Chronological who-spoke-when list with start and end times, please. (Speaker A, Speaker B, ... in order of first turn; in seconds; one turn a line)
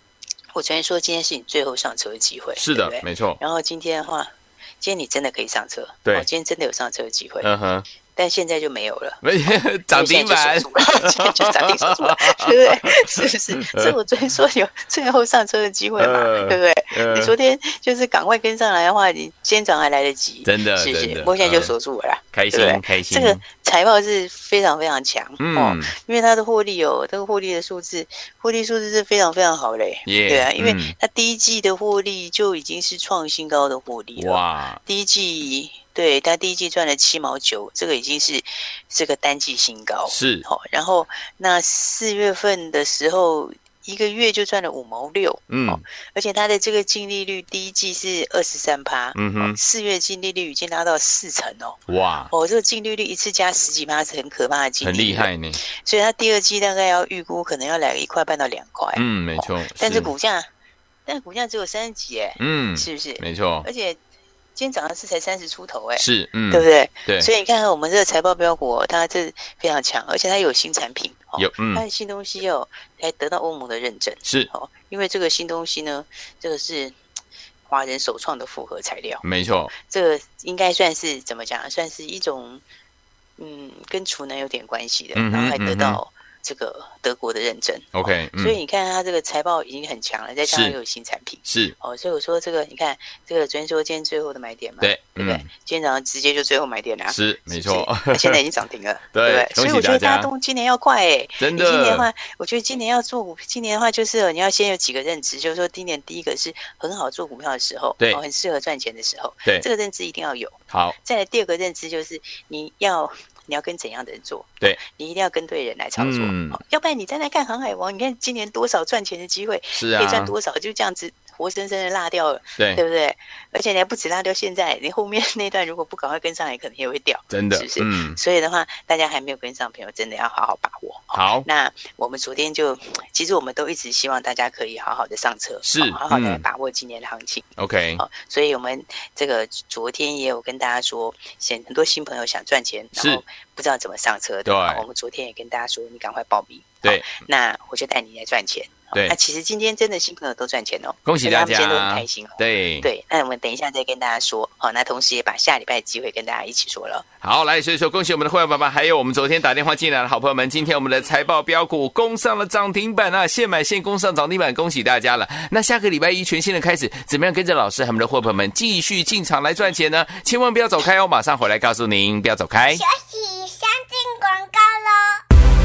Speaker A: 0.5-7.5
Speaker B: 2.6-3.4
Speaker B: 7.4-7.8
Speaker A: 8.2-9.2
Speaker B: 9.2-14.0
Speaker A: 9.9-60.5
Speaker B: 16.0-17.3
Speaker B: 20.4-21.7
Speaker B: 22.3-23.4
Speaker B: 25.4-25.9
Speaker B: 30.1-30.9
Speaker B: 34.2-34.8
Speaker B: 40.1-40.5
Speaker B: 45.5-45.8
Speaker B: 49.1-49.6
Speaker B: 51.9-52.3
Speaker B: 54.8-55.6
Speaker B: 59.0-60.1
Speaker A: 61.1-64.0
Speaker B: 62.4-63.7
Speaker A: 64.5-77.0
Speaker B: 66.0-67.3
Speaker B: 71.4-71.8
Speaker B: 74.2-74.5
Speaker A: 77.7-82.6
Speaker B: 79.2-79.7
Speaker A: 83.4-137.5
Speaker B: 85.2-86.0
Speaker B: 88.0-88.6
Speaker B: 90.5-90.7
Speaker B: 91.5-91.8
Speaker B: 94.8-95.5
Speaker B: 97.1-98.4
Speaker B: 99.1-100.3
Speaker B: 101.4-102.1
Speaker B: 110.7-111.0
Speaker B: 116.0-116.6
Speaker B: 119.7-120.3
Speaker B: 127.3-128.2
Speaker B: 131.1-131.5
Speaker B: 135.7-136.4
Speaker B: 137.6-138.0
Speaker A: 138.0-157.1
Speaker B: 143.0-143.2
Speaker B: 144.5-144.8
Speaker B: 146.8-147.1
Speaker B: 151.1-152.9
Speaker B: 157.2-172.8
Speaker C: 172.7-175.2